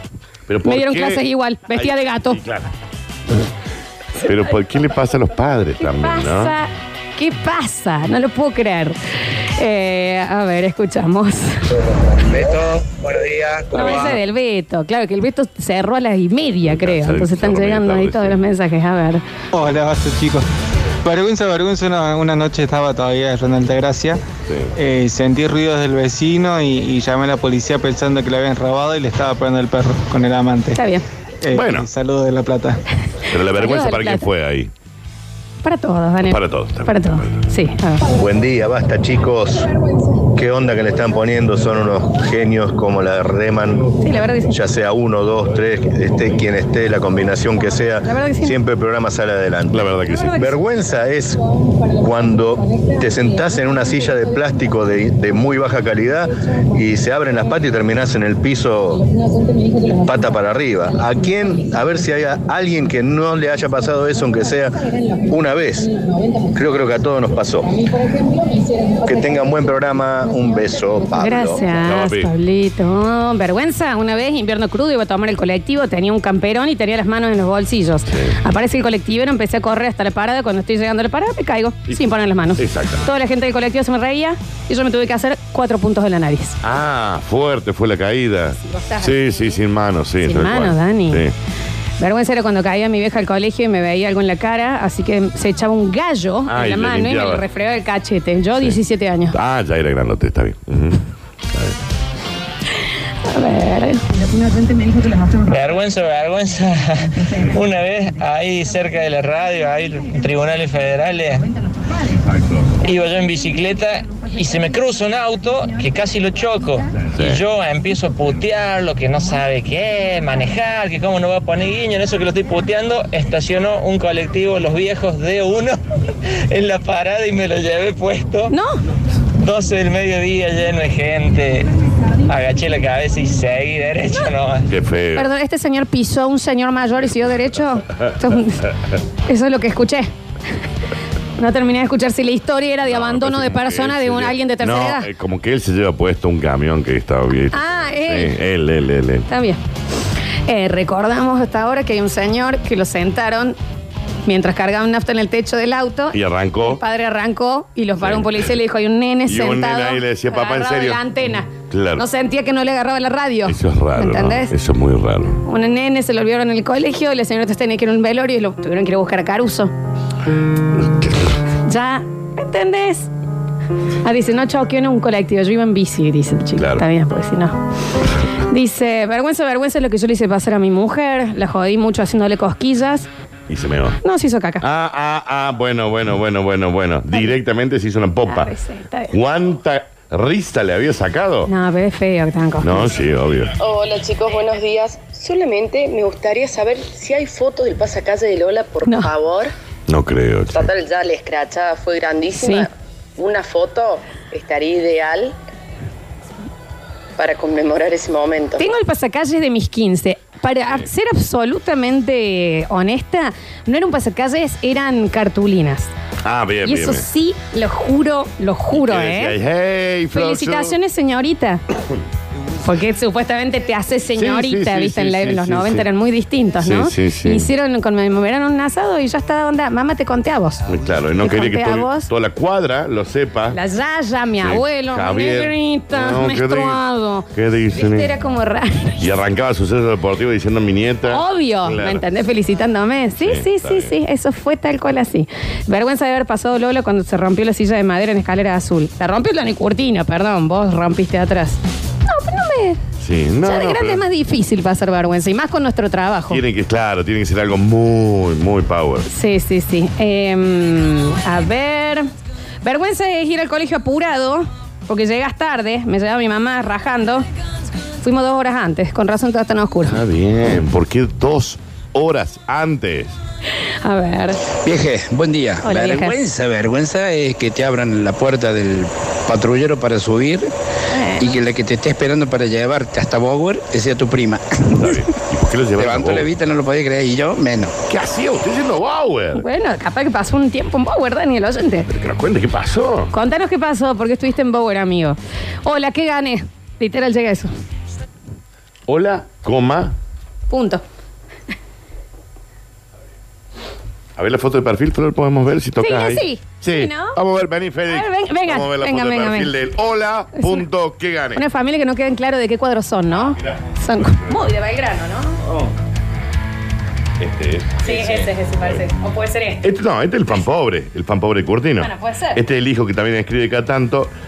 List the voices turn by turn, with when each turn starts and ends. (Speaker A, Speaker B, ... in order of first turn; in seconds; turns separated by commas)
Speaker A: 0.5-1.2, Speaker B: 0.6-2.4, Speaker A: 1.7-2.7, Speaker A: 4.2-6.5, Speaker B: 5.8-9.0, Speaker B: 9.6-11.6, Speaker B: 13.7-19.2, Speaker A: 16.6-18.4, Speaker C: 19.5-20.5, Speaker C: 21.0-24.2, Speaker C: 24.8-30.8, Speaker B: 30.8-31.1, Speaker C: 31.4-32.8, Speaker A: 31.5-31.9, Speaker A: 33.3-34.7, Speaker B: 33.5-34.3, Speaker B: 35.6-38.0, Speaker A: 36.2-37.4, Speaker D: 38.2-39.7, Speaker D: 40.4-43.9, Speaker B: 44.0-44.5, Speaker D: 44.5-49.8, Speaker B: 48.0-48.5, Speaker A: 49.7-50.4, Speaker B: 50.2-50.5, Speaker D: 50.4-51.4, Speaker D: 52.0-59.1, Speaker D: 59.9-64.8, Speaker D: 65.3-65.9, Speaker D: 66.5-67.7, Speaker D: 69.0-71.6, Speaker B: 71.2-86.6, Speaker A: 71.8-72.3, Speaker A: 78.1-78.4, Speaker A: 82.6-83.1, Speaker A: 86.6-91.3, Speaker B: 88.6-89.6, Speaker B: 90.2-91.2, Speaker B: 92.0-99.4, Speaker A: 96.5-97.4, Speaker A: 99.3-101.0, Speaker B: 103.2-104.0, Speaker E: 105.4-111.5, Speaker E: 112.8-125.8, Speaker A: 117.2-117.4, Speaker E: 126.5-128.5, Speaker E: 129.4-131.7, Speaker E: 132.3-134.7, Speaker A: 134.7-135.3, Speaker B: 135.1-138.6, Speaker B: 139.3-140.1, Speaker B: 141.4-145.1, Speaker A: 142.9-149.3, Speaker B: 147.5-148.3, Speaker B: 149.3-149.6, Speaker B: 150.5-153.6, Speaker B: 154.2-164.5, Speaker A: 156.1-156.8, Speaker A: 158.0-158.5, Speaker A: 159.3-161.0, Speaker A: 161.7-162.1, Speaker A: 163.5-165.4, Speaker B: 165.5-169.7, Speaker A: 170.8-171.1, Speaker B: 171.7-173.1, Speaker B: 174.0-177.6, Speaker A: 176.6-176.8, Speaker B: 178.5-183.1, Speaker A: 183.5-184.0, Speaker B: 184.0-184.6, Speaker A: 184.6-188.5, Speaker B: 188.3-189.1, Speaker A: 189.1-191.5, Speaker B: 191.5-192.9, Speaker A: 192.6-193.5, Speaker F: 193.6-199.5, Speaker A: 199.9-200.7, Speaker F: 200.5-205.3, Speaker B: 202.4-202.7, Speaker F: 207.2-208.7, Speaker B: 208.6-215.9, Speaker A: 216.2-217.1, Speaker B: 216.6-219.4, Speaker A: 218.7-220.8, Speaker B: 220.1-221.6, Speaker B: 222.6-230.6, Speaker A: 224.2-225.9, Speaker A: 226.6-227.5, Speaker A: 230.7-233.6, Speaker B: 231.2-232.1, Speaker B: 233.5-239.1, Speaker A: 234.4-236.8, Speaker A: 237.3-238.1, Speaker A: 239.0-242.0, Speaker B: 241.1-252.8, Speaker A: 243.2-243.9, Speaker A: 253.0-254.0, Speaker B: 253.4-256.4, Speaker A: 256.3-259.1, Speaker B: 259.1-262.1, Speaker B: 262.6-267.2, Speaker B: 268.0-270.0, Speaker A: 269.9-273.2, Speaker B: 273.8-274.4, Speaker G: 274.6-280.5, Speaker B: 275.6-276.2, Speaker B: 280.9-281.3, Speaker G: 281.2-284.4, Speaker A: 284.8-286.3, Speaker G: 285.8-287.7, Speaker A: 287.9-289.4, Speaker B: 289.4-291.9, Speaker A: 291.9-293.1, Speaker B: 293.1-297.5, Speaker A: 298.9-299.9, Speaker B: 300.5-300.8, Speaker A: 304.2-311.4, Speaker B: 305.8-307.2, Speaker B: 307.9-309.5, Speaker B: 310.4-310.7, Speaker B: 311.4-315.4, Speaker A: 313.2-314.1, Speaker A: 317.2-318.7, Speaker B: 317.8-319.6, Speaker A: 319.6-324.1, Speaker B: 321.8-322.4